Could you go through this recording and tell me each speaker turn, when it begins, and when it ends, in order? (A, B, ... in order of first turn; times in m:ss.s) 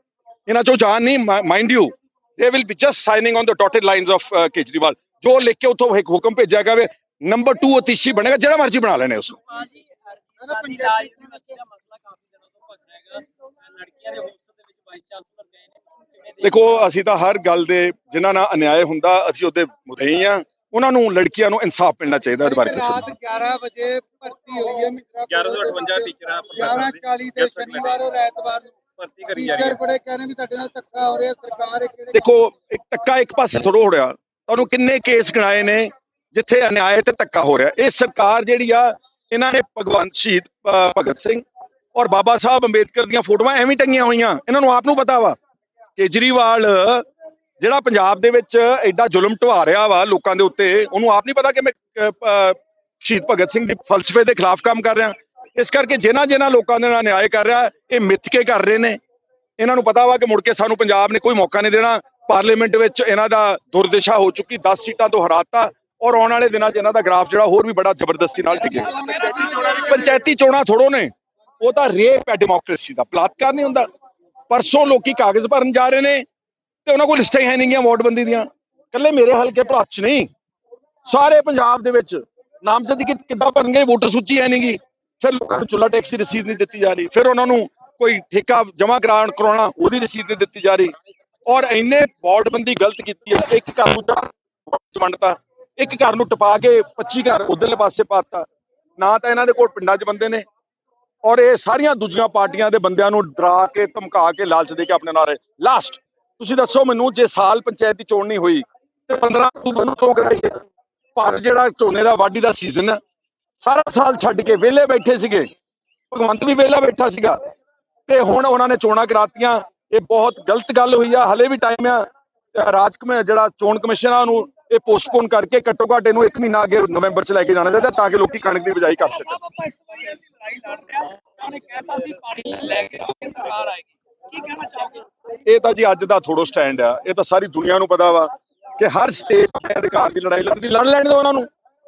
0:00.4-0:09.4 A
0:10.4-0:16.7 B
0:10.4-0:11.5 C
0:16.4-0:23.1 A
0:22.4-0:28.8 C
0:25.3-0:28.0 B
0:29.0-0:29.8 B
0:29.3-0:32.2 C
0:32.1-0:41.4 A
0:41.9-0:45.4 A
0:46.0-0:47.1 A
0:47.6-0:59.0 A
0:59.6-1:13.9 A
1:08.9-1:09.8 C
1:14.5-1:16.2 A
1:16.8-1:20.3 A
1:21.0-1:30.9 A
1:31.5-1:40.4 A
1:41.2-1:50.6 A
1:51.2-1:53.0 A
1:53.6-1:55.5 A
1:56.1-1:57.4 A
1:58.1-2:09.5 A
2:09.6-2:15.0 B
2:15.4-2:21.5 A